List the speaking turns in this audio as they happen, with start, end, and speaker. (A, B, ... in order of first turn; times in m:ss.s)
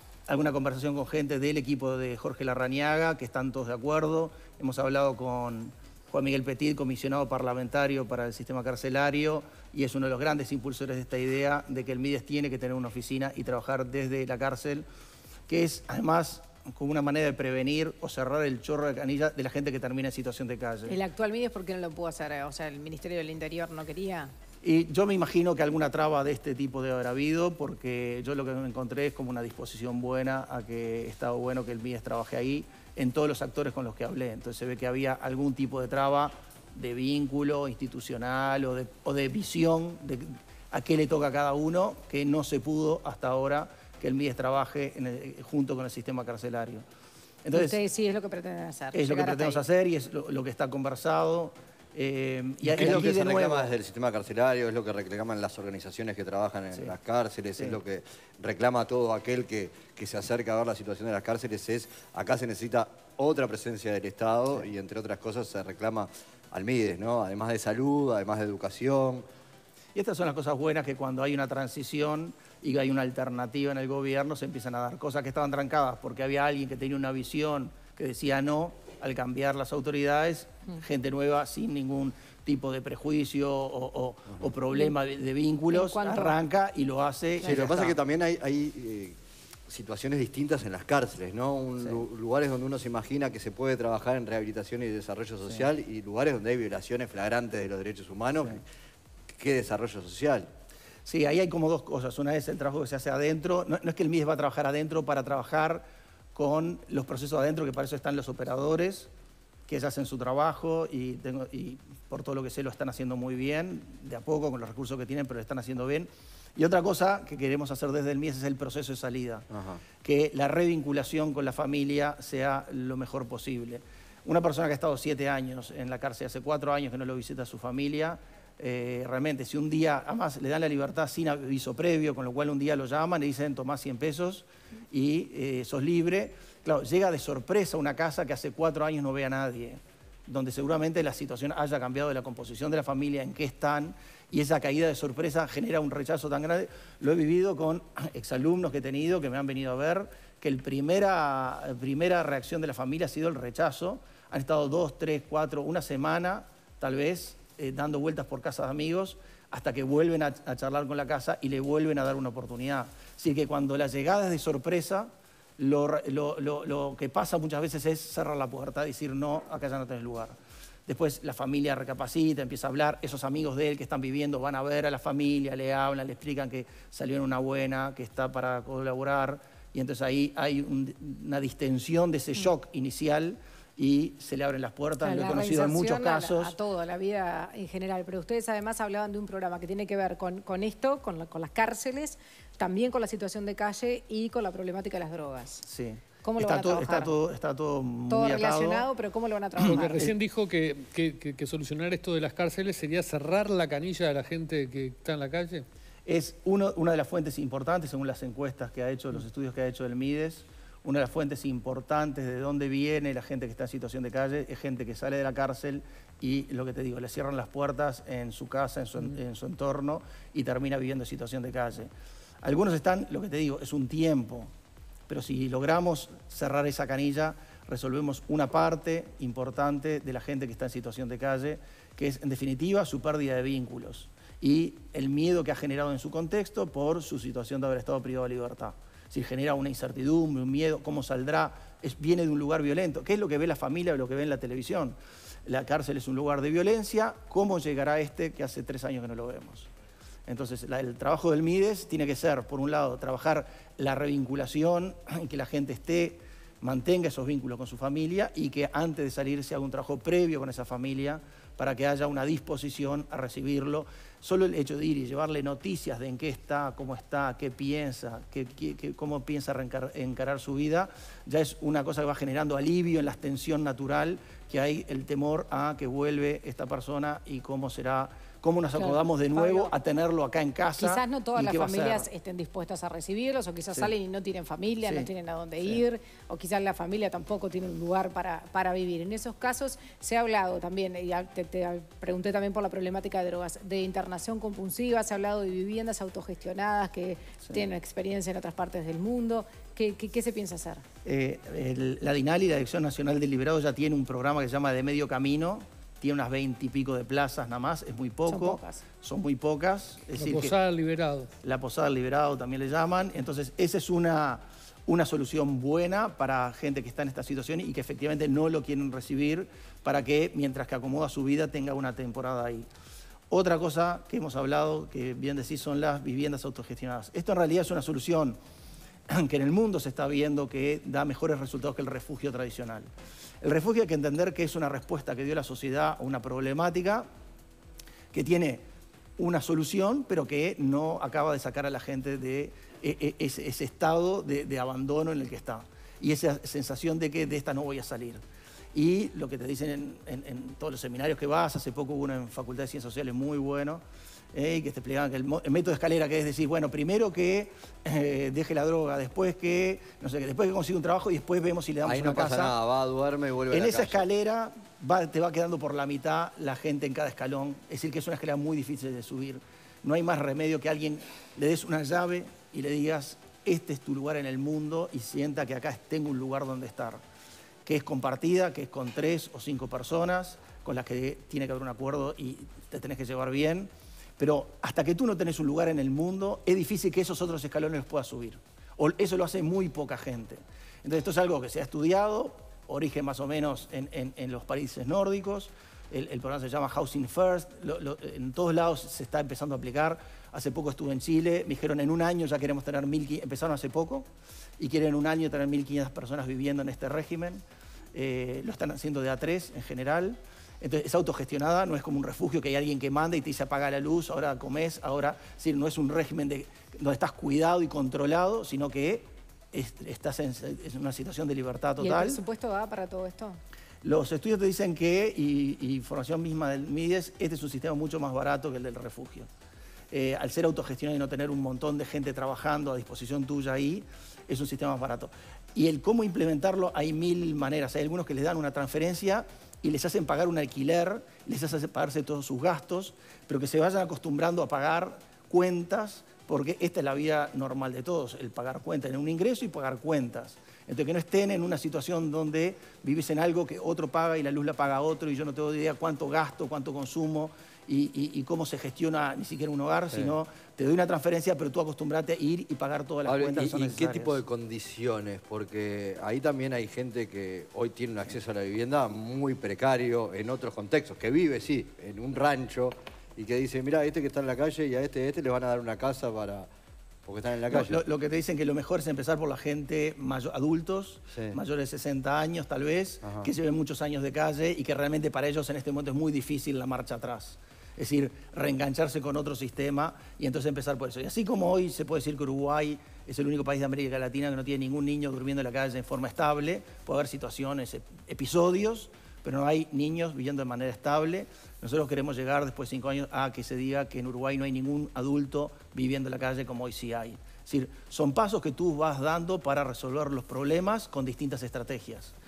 0:00.3-0:14.8 A
0:15.5-0:21.0 A
0:20.9-0:24.3 B
0:24.6-0:46.8 A
0:47.4-0:47.8 A
0:47.5-0:49.6 B
0:48.9-0:53.7 A
0:52.7-0:53.2 C
0:53.0-0:56.6 D
0:58.7-1:09.2 D
1:10.0-1:28.0 A
1:25.7-1:26.4 B
1:27.7-1:29.1 D
1:29.7-1:38.1 D
1:31.8-1:32.0 A
1:38.3-1:38.6 A
1:39.5-1:40.4 D
1:41.1-1:49.1 A
1:49.7-2:50.4 A
2:50.9-3:06.6 A
3:05.0-3:15.6 B
3:15.6-3:18.9 A
3:16.2-3:17.1 B
3:18.1-3:20.1 B
3:19.6-3:20.1 A
3:19.7-3:25.7 C
3:26.1-3:41.9 A
3:42.4-3:44.5 A
3:45.1-4:09.7 A
4:10.3-4:42.1 A
4:38.8-4:39.7 B
4:40.8-5:00.8 B
5:01.0-5:10.5 A
5:08.3-5:08.8 B
5:10.2-5:11.3 C
5:11.4-5:22.7 A
5:23.3-5:28.4 A
5:29.1-5:32.9 A
5:33.4-5:37.1 A
5:38.1-5:38.7 A
5:39.2-5:48.2 A
5:48.7-5:53.8 A
5:54.3-6:02.6 A
6:01.9-6:03.5 D
6:03.5-6:17.0 A
6:17.6-6:44.1 A
6:44.6-6:47.4 A
6:47.9-7:02.2 A
7:01.8-7:03.4 B
7:03.8-7:09.3 A
7:09.9-7:44.2 A
7:44.3-7:52.7 D
7:55.4-7:55.9 D
7:57.5-8:32.1 A